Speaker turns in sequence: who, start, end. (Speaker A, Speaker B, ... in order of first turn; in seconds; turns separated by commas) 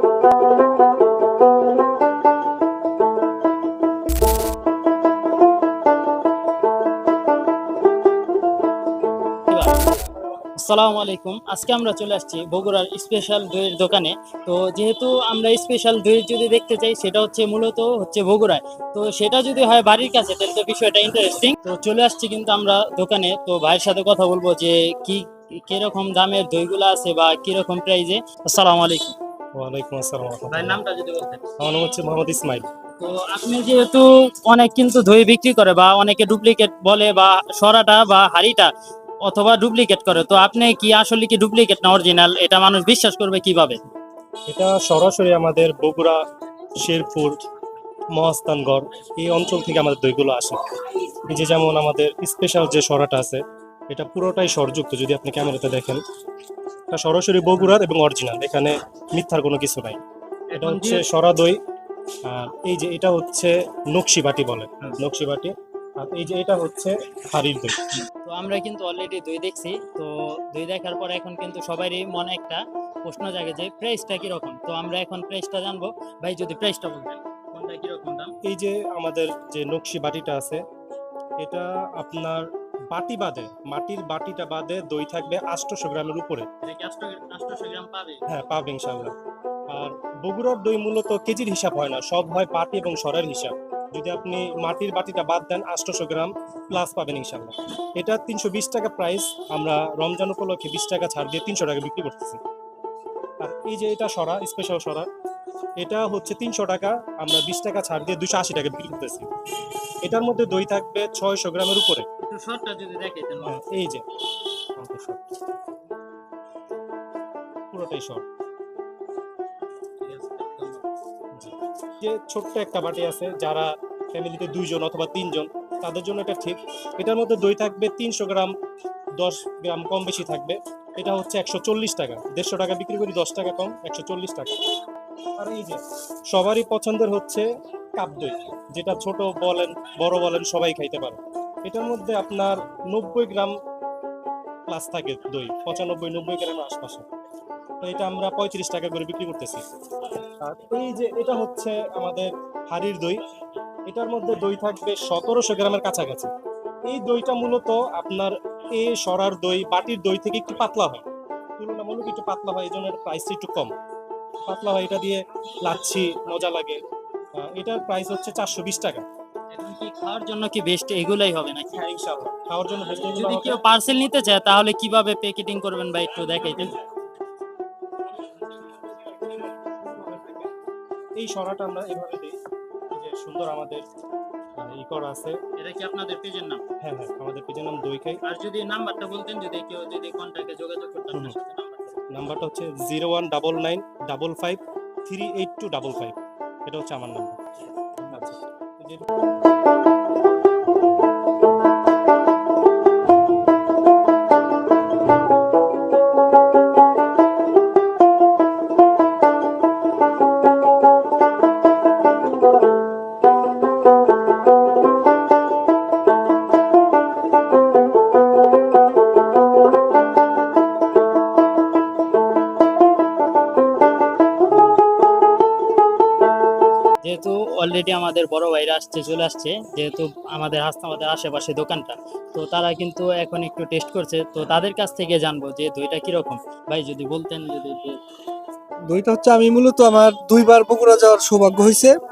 Speaker A: 9.5-9.8, Speaker A: 10.6-29.1, Speaker B: 29.5-30.8, Speaker A: 30.5-31.4, Speaker B: 31.6-32.7, Speaker A: 33.0-38.7, Speaker A: 39.2-43.8, Speaker B: 44.5-46.2, Speaker B: 46.8-47.4, Speaker B: 48.1-50.6, Speaker B: 51.3-56.0, Speaker B: 56.9-60.0, Speaker A: 60.5-61.0, Speaker B: 60.6-61.6, Speaker B: 62.2-67.9, Speaker A: 68.2-78.3, Speaker B: 78.4-80.6, Speaker B: 81.4-86.5, Speaker A: 86.6-88.2, Speaker B: 88.3-89.1, Speaker B: 89.7-102.4, Speaker B: 103.4-105.1, Speaker B: 105.8-109.3, Speaker B: 110.0-112.0, Speaker A: 112.2-113.7, Speaker B: 113.4-114.0, Speaker B: 114.8-115.4, Speaker B: 117.7-118.2, Speaker A: 120.0-120.8, Speaker B: 121.3-128.5, Speaker B: 129.2-134.5, Speaker B: 135.4-143.5, Speaker B: 144.7-147.1, Speaker B: 147.8-149.6, Speaker B: 150.4-153.2, Speaker B: 153.9-156.3, Speaker B: 156.9-161.0, Speaker B: 161.6-163.7, Speaker B: 164.4-166.8, Speaker B: 167.3-169.1, Speaker A: 169.5-172.3, Speaker B: 172.5-173.6, Speaker A: 172.9-176.8, Speaker B: 179.3-180.4, Speaker B: 181.2-182.3, Speaker B: 182.9-183.8, Speaker B: 184.6-185.4, Speaker A: 185.6-186.6, Speaker B: 186.8-188.2, Speaker A: 188.2-192.0, Speaker B: 192.1-197.4, Speaker B: 198.1-199.1, Speaker A: 227.0-238.0, Speaker C: 238.9-241.9